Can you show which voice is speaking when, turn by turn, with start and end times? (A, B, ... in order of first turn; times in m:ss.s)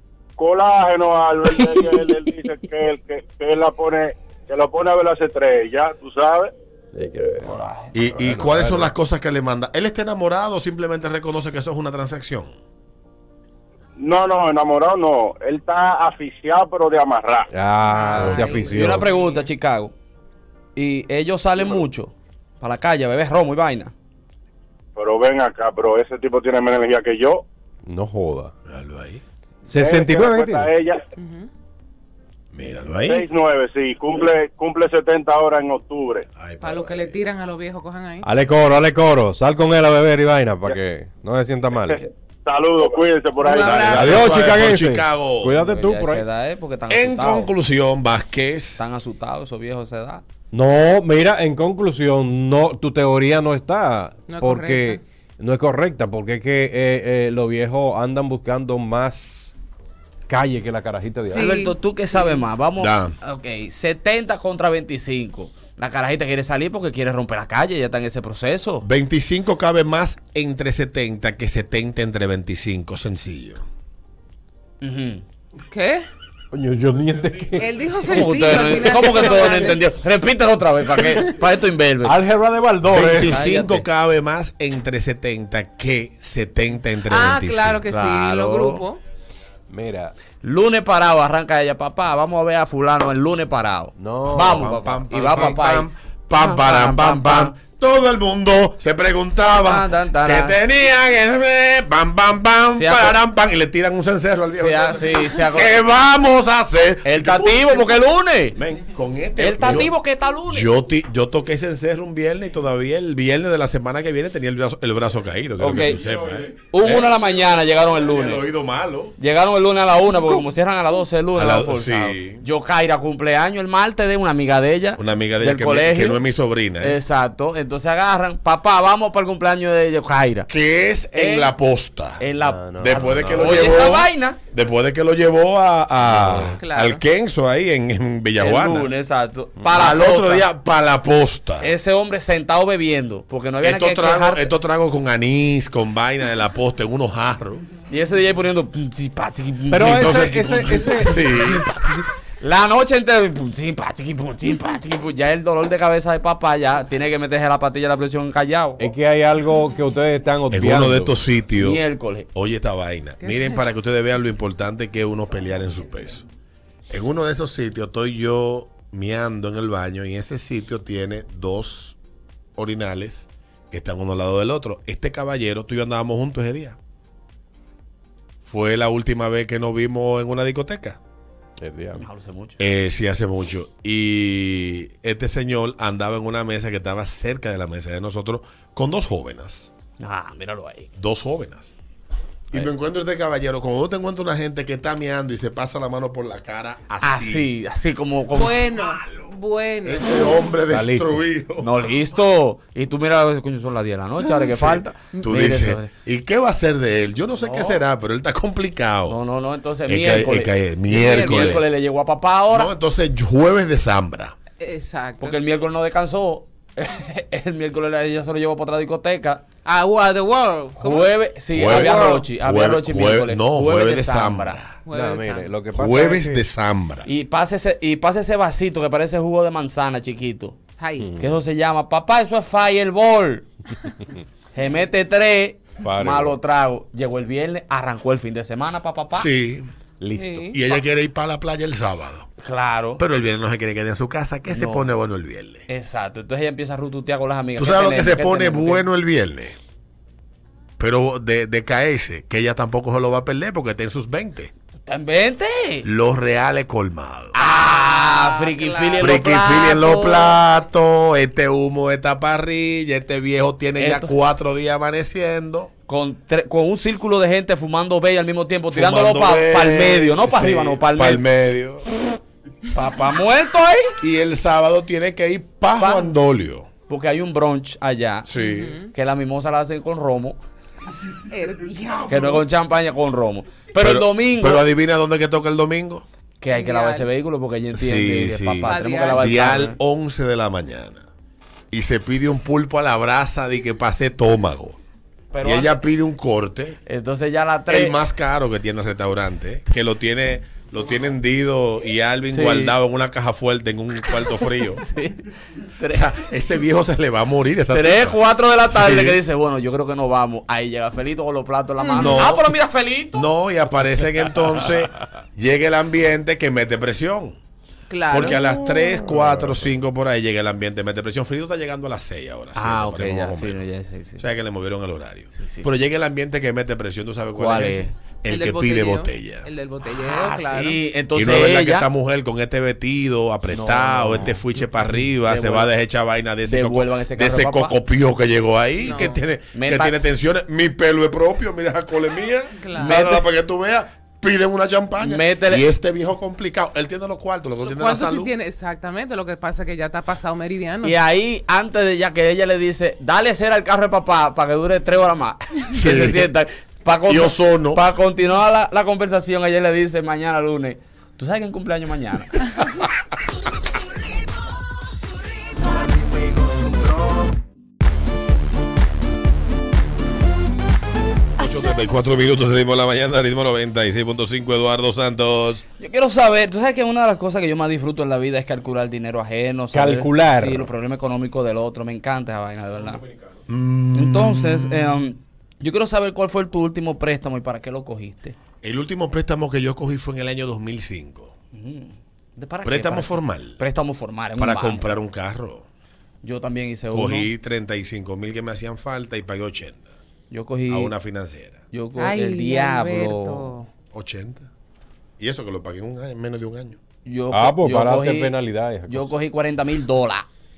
0:00.4-0:06.5 A
0:06.9-0:08.9 B
0:07.4-0:08.0 C
0:07.9-0:12.6 D
0:14.0-0:17.5 A
0:17.5-0:19.1 B
0:17.8-0:19.4 E
0:18.3-0:19.9 C
0:20.8-0:23.9 C
0:25.0-0:27.4 A
0:27.8-0:28.5 B
0:28.7-0:29.2 D
0:29.7-0:30.7 B
0:29.7-0:31.0 A
0:31.2-0:31.5 E
0:32.5-0:33.3 D
0:33.0-0:36.3 A
0:36.4-0:37.2 D
0:36.6-0:38.3 E
0:38.2-0:42.0 B
0:42.5-0:44.3 A
0:43.4-0:44.3 E
0:43.5-0:45.6 D
0:43.7-0:46.2 B
0:45.6-0:47.5 C
0:46.9-0:48.8 D
0:48.8-0:50.2 C
0:50.5-0:59.5 B
0:54.3-0:55.0 E
1:00.3-1:01.6 B
1:01.3-1:01.7 E
1:01.3-1:08.9 C
1:02.8-1:03.1 D
1:08.8-1:13.6 D
1:14.8-1:15.2 C
1:15.7-1:16.0 E
1:16.5-1:19.5 B
1:17.6-1:19.8 E
1:18.1-1:22.2 C
1:22.0-1:23.4 B
1:22.9-1:27.8 D
1:23.0-1:23.9 C
1:27.1-1:29.0 E
1:27.9-1:28.8 C
1:29.7-1:30.1 B
1:30.4-1:37.6 C
1:34.0-1:34.7 B
1:34.3-1:47.9 D
1:39.6-1:40.6 C
1:42.8-1:43.2 C
1:44.5-1:45.8 C
1:47.0-1:48.6 C
1:48.6-1:49.9 D
1:49.4-1:50.8 C
1:50.5-1:57.1 D
1:55.6-1:56.0 C
1:56.6-1:58.4 C
1:58.0-1:59.2 D
1:59.2-2:06.2 C
2:01.4-2:02.4 D
2:05.0-2:07.0 D
2:06.8-2:10.5 C
2:10.5-2:12.2 D
2:11.1-2:11.5 C
2:12.2-2:14.4 C
2:12.4-2:13.7 B
2:12.8-2:18.9 D
2:16.0-2:16.6 B
2:16.6-2:17.0 E
2:18.4-2:20.5 C
2:19.7-2:21.7 D
2:21.6-2:24.5 C
2:23.6-2:27.6 D
2:27.9-2:38.8 C
2:29.7-2:31.6 B
2:29.8-2:31.7 D
2:38.8-2:41.2 B
2:40.5-2:41.8 D
2:41.6-2:42.3 C
2:42.3-2:46.2 D
2:43.2-2:43.6 E
2:46.9-2:52.0 D
2:52.6-2:56.8 D
2:58.4-3:01.0 D
3:01.6-3:02.0 B
3:02.0-3:02.6 C
3:02.6-3:09.7 D
3:10.0-3:10.9 C
3:11.0-3:11.8 D
3:12.5-3:17.5 D
3:17.0-3:18.7 C
3:18.3-3:20.4 E
3:19.8-3:21.7 D
3:20.7-3:21.3 B
3:21.6-3:25.9 C
3:24.4-3:29.2 D
3:27.4-3:27.8 C
3:29.1-3:32.7 C
3:29.9-3:31.6 D
3:32.5-3:34.4 D
3:34.6-3:35.4 E
3:35.2-3:39.4 C
3:39.6-3:42.2 E
3:40.8-3:44.6 C
3:41.5-3:44.8 D
3:44.9-3:45.5 E
3:44.9-3:46.4 B
3:45.8-3:47.1 D
3:47.0-3:50.6 C
3:50.8-3:51.1 E
3:51.0-3:51.4 B
3:51.2-3:53.5 C
3:54.6-3:59.3 C
3:55.8-3:56.4 B
3:59.1-3:59.7 D
4:00.0-4:00.5 B
4:00.2-4:00.6 E
4:00.5-4:02.3 D
4:02.4-4:03.0 C
4:03.0-4:05.7 D
4:04.5-4:05.0 C
4:05.7-4:08.9 C
4:07.6-4:09.6 D
4:10.8-4:14.5 D
4:14.9-4:15.9 C
4:15.8-4:17.4 D
4:17.3-4:20.4 C
4:17.4-4:19.3 E
4:19.0-4:25.7 D
4:23.8-4:24.2 C
4:25.9-4:31.2 C
4:28.7-4:31.9 D
4:32.7-4:34.0 C
4:34.0-4:36.7 D
4:35.8-4:36.1 C
4:36.9-4:38.3 C
4:38.3-4:38.8 D
4:38.4-4:38.9 E
4:38.9-4:40.4 C
4:41.3-4:42.4 E
4:42.1-4:44.6 C
4:43.8-4:46.0 D
4:46.4-4:49.8 C
4:46.5-4:47.1 E
4:47.8-4:51.1 D
4:48.7-4:49.3 E
4:51.7-4:54.8 D
4:55.3-4:55.8 C
4:55.4-4:56.8 D
4:56.9-4:58.0 C
4:57.7-5:04.8 D
5:02.3-5:02.8 C
5:04.8-5:05.3 C
5:05.8-5:06.1 C
5:05.9-5:09.2 D
5:07.7-5:13.2 C
5:11.8-5:12.1 E
5:12.0-5:12.5 D
5:13.1-5:17.4 D
5:17.9-5:18.4 E
5:18.1-5:23.6 D
5:19.0-5:19.7 B
5:22.6-5:24.2 C
5:24.2-5:29.5 D
5:25.4-5:25.7 C
5:27.4-5:27.9 C
5:28.3-5:30.8 E
5:30.1-5:31.9 C
5:31.2-5:48.3 D
5:33.5-5:34.4 B
5:35.2-5:35.7 C
5:36.4-5:37.7 C
5:38.8-5:39.2 E
5:39.5-5:40.0 C
5:42.6-5:42.9 E
5:42.8-5:43.3 C
5:45.0-5:45.6 C
5:47.6-5:51.0 E
5:50.8-6:02.5 C
5:55.7-5:56.3 D
5:57.1-5:57.8 D
6:11.4-6:15.6 D
6:15.8-6:23.0 C
6:19.7-6:20.7 B
6:23.5-6:25.0 D
6:23.9-6:28.4 C
6:28.6-6:31.3 D
6:31.5-6:34.9 C
6:32.6-6:33.6 D
6:34.4-6:35.7 D
6:36.2-6:37.3 C
6:36.9-6:39.9 D
6:40.3-6:40.9 C
6:40.7-6:41.6 D
6:41.7-6:43.5 C
6:42.0-6:43.7 E
6:43.9-6:44.5 D
6:45.2-6:46.8 D
6:47.0-6:48.3 C
6:47.3-6:49.1 B
6:48.9-6:50.3 C